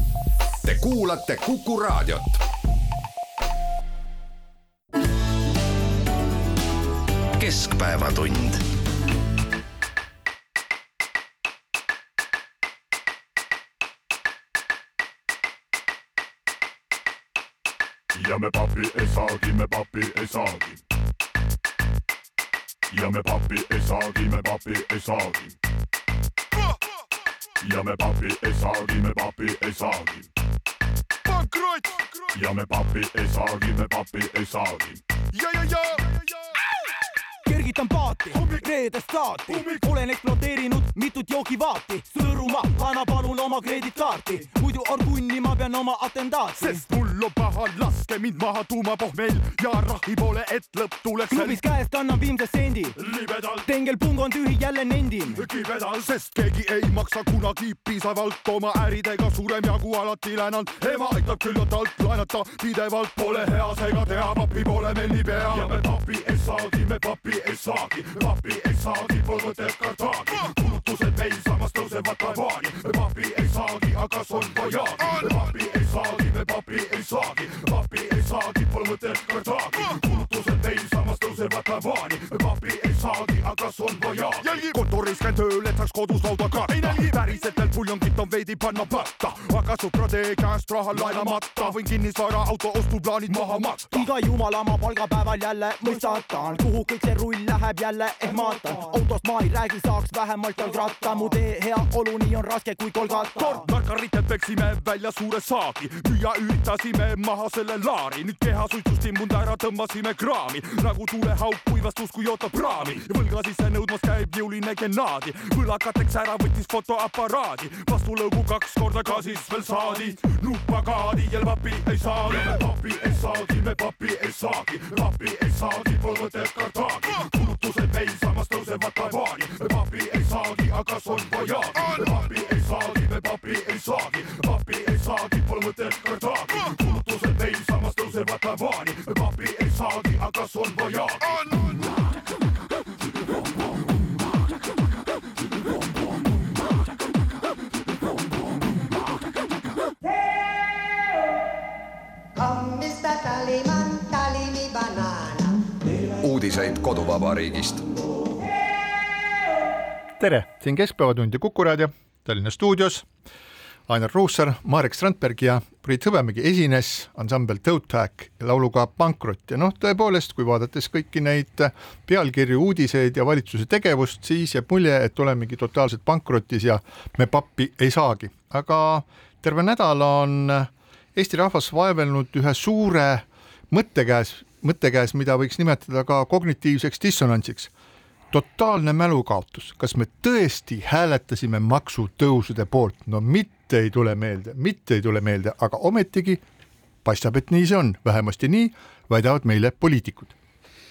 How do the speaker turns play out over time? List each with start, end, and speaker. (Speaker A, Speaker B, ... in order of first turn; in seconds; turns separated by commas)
Speaker A: 0.6-2.4, Speaker A: 7.3-8.7, Speaker B: 18.1-20.8, Speaker B: 22.9-25.5, Speaker B: 27.6-30.3, Speaker C: 31.4-31.8, Speaker B: 32.3-35.0, Speaker C: 35.4-36.0, Speaker D: 37.5-46.8, Speaker C: 46.6-51.6, Speaker D: 51.3-53.0, Speaker B: 53.1-53.5, Speaker D: 53.6-55.4, Speaker C: 55.4-65.8, Speaker B: 63.3-63.7, Speaker B: 65.3-84.6, Speaker C: 84.4-94.1, Speaker D: 93.9-103.7, Speaker C: 103.3-122.6, Speaker B: 122.3-141.2, Speaker E: 152.3-155.7, Speaker A: 156.2-157.8, Speaker F: 160.2-163.1, Speaker F: 163.9-187.7, Speaker F: 188.3-196.4, Speaker F: 197.0-200.3